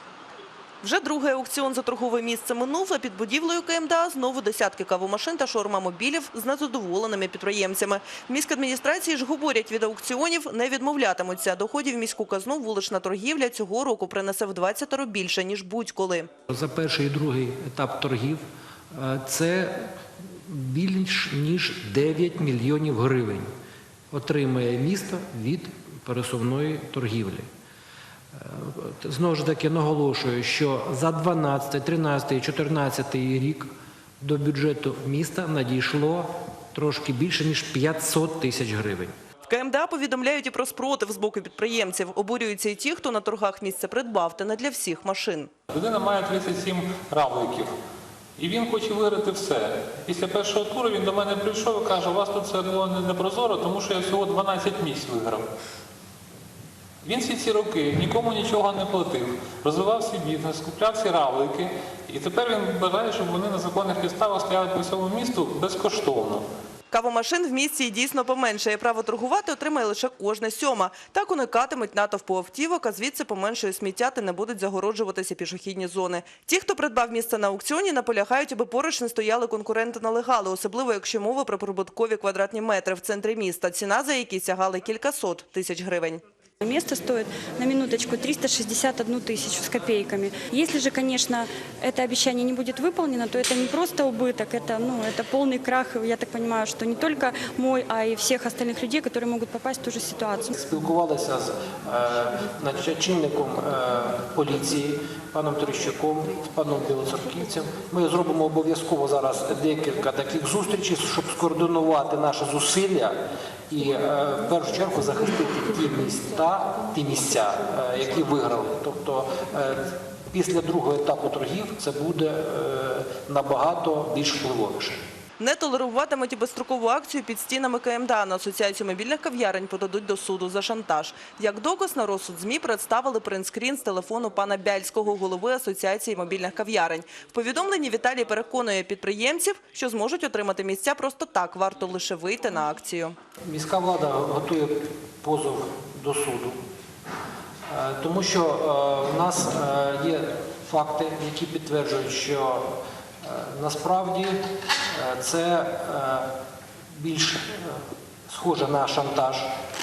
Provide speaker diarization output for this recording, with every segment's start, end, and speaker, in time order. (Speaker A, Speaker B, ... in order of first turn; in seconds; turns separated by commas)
Speaker A: 0.8-16.3, Speaker B: 16.5-23.5, Speaker B: 24.1-27.5, Speaker B: 28.3-39.1, Speaker A: 39.5-45.5, Speaker C: 45.7-47.7, Speaker C: 48.4-55.5, Speaker C: 57.0-66.4, Speaker A: 66.9-86.2, Speaker D: 86.6-100.5, Speaker B: 100.5-125.1, Speaker A: 125.4-143.1, Speaker B: 143.4-146.6, Speaker B: 147.7-156.3, Speaker B: 156.9-159.5